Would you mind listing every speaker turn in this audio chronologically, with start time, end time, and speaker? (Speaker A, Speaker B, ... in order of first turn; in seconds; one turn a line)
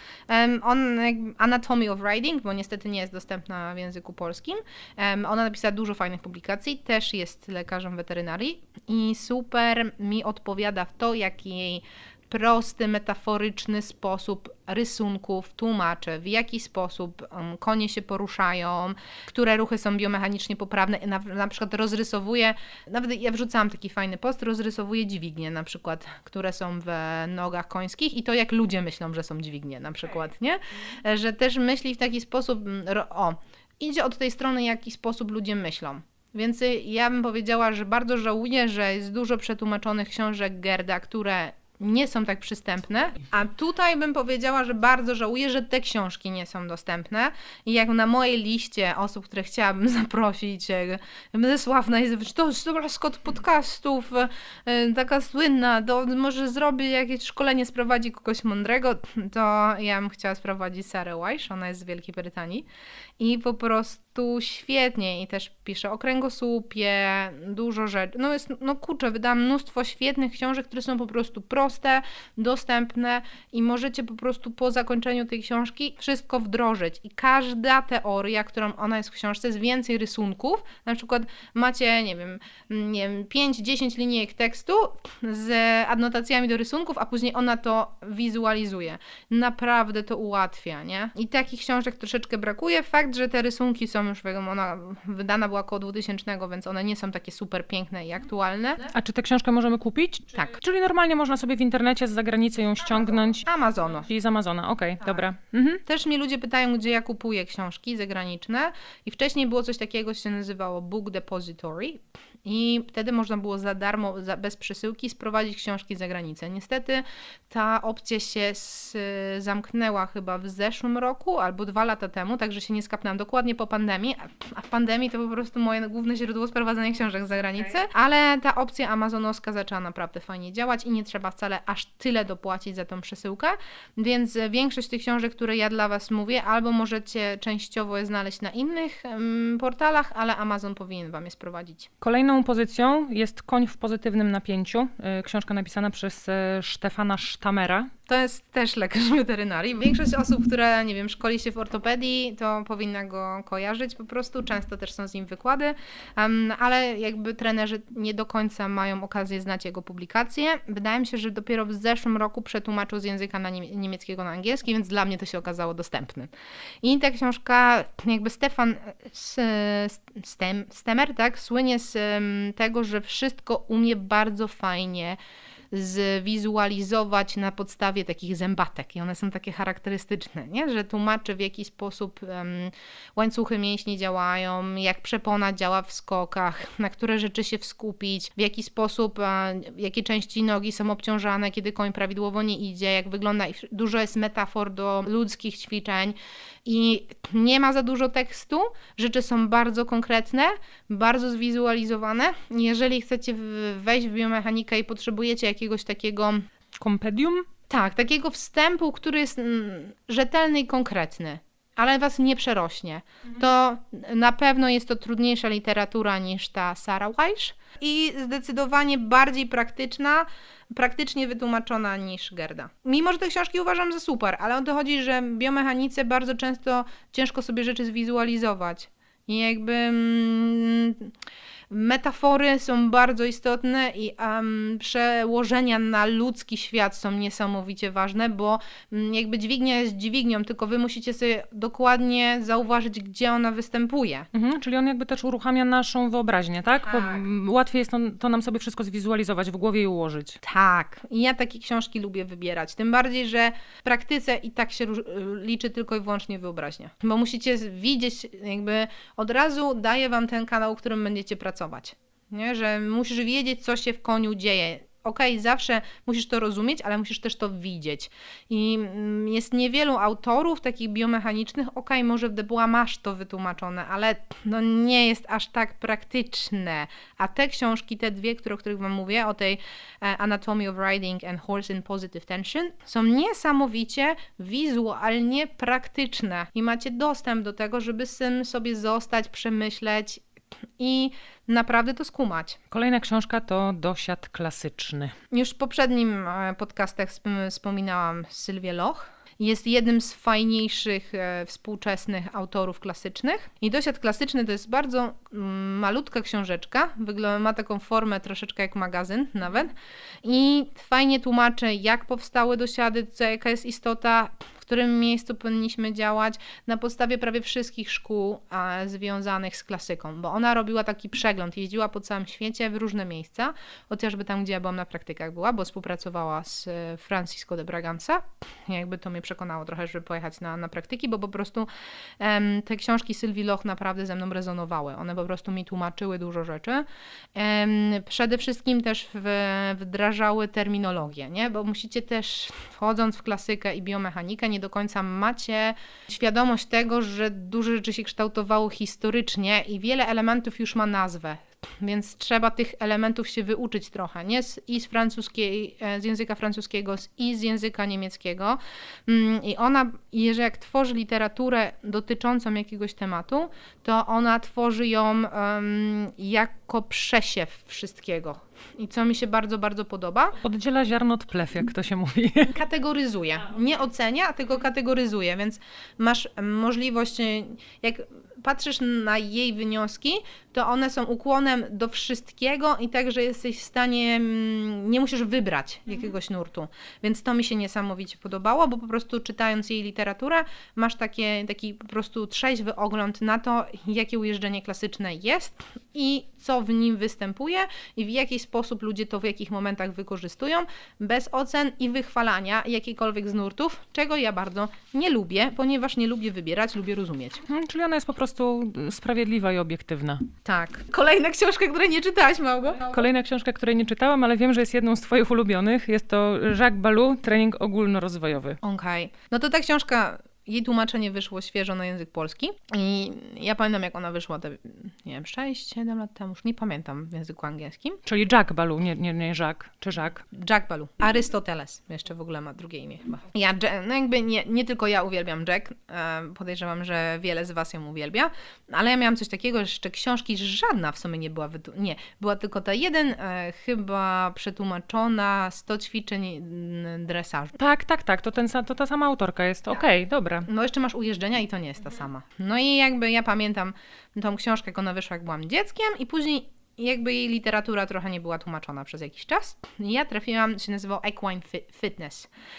Speaker A: 0.3-62.7
Speaker A: 63.2-98.9
Speaker B: 98.9-103.5
Speaker A: 103.4-104.1
Speaker B: 104.0-105.8
Speaker A: 105.9-141.9
Speaker B: 142.0-147.9
Speaker A: 148.1-166.3
Speaker A: 166.8-175.2
Speaker A: 175.7-206.5
Speaker B: 206.8-207.5
Speaker A: 207.7-231.1
Speaker A: 231.7-244.3
Speaker B: 244.3-250.4
Speaker A: 246.9-247.2
Speaker A: 250.4-290.2
Speaker A: 290.8-292.6
Speaker B: 292.7-295.1
Speaker A: 295.3-331.7
Speaker A: 332.2-370.4
Speaker B: 370.4-372.5
Speaker A: 372.5-407.4
Speaker B: 407.5-410.3
Speaker A: 410.4-412.9
Speaker B: 412.9-418.6
Speaker A: 418.6-428.0
Speaker B: 428.1-430.2
Speaker A: 430.3-447.6
Speaker B: 447.6-450.5
Speaker A: 450.5-462.3